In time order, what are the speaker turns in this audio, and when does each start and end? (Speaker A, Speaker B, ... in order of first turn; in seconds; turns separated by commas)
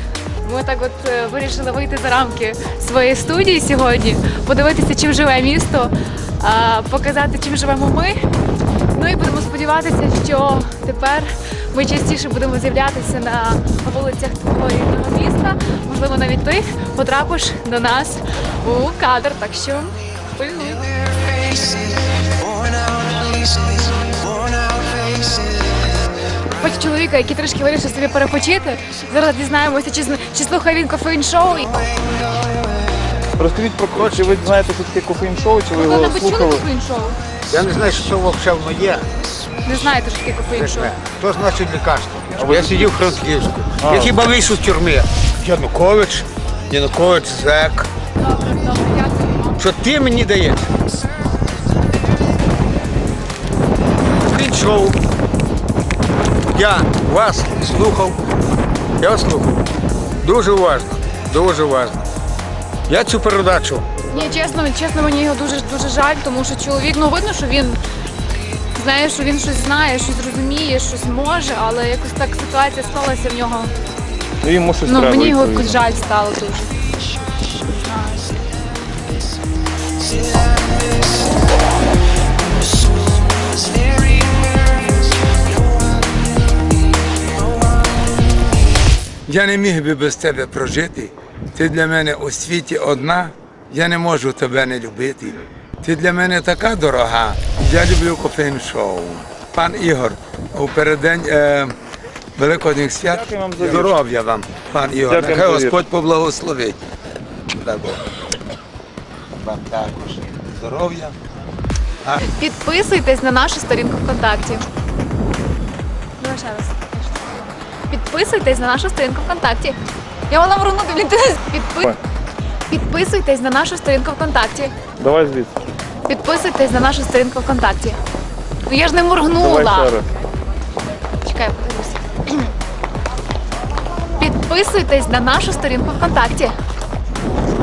Speaker A: 0.4-8.2, Speaker A: 8.9-20.9, Speaker A: 26.5-31.9, Speaker B: 33.4-36.6, Speaker C: 33.9-34.4, Speaker A: 35.8-37.2, Speaker C: 37.5-39.1, Speaker A: 39.6-40.9, Speaker C: 40.5-47.9, Speaker B: 42.4-43.0, Speaker B: 43.8-44.2, Speaker A: 48.2-49.6, Speaker C: 49.6-50.7, Speaker C: 54.2-55.0, Speaker C: 56.5-58.2, Speaker C: 59.0-59.5, Speaker C: 60.2-62.0, Speaker C: 62.9-63.9, Speaker A: 64.1-67.8, Speaker A: 68.7-73.7, Speaker B: 74.4-75.8, Speaker A: 74.8-76.7, Speaker A: 77.6-78.2, Speaker D: 89.3-101.8, Speaker D: 102.4-106.8, Speaker B: 103.0-103.9, Speaker C: 103.6-104.5, Speaker B: 105.0-105.8, Speaker D: 107.5-108.0, Speaker D: 109.5-111.2, Speaker A: 112.2-114.7, Speaker A: 116.2-119.8, Speaker A: 120.3-121.9, Speaker A: 122.7-124.8, Speaker B: 125.0-125.5, Speaker A: 126.1-128.0, Speaker A: 128.7-129.9, Speaker B: 129.3-130.1, Speaker A: 131.2-132.5, Speaker A: 134.2-136.6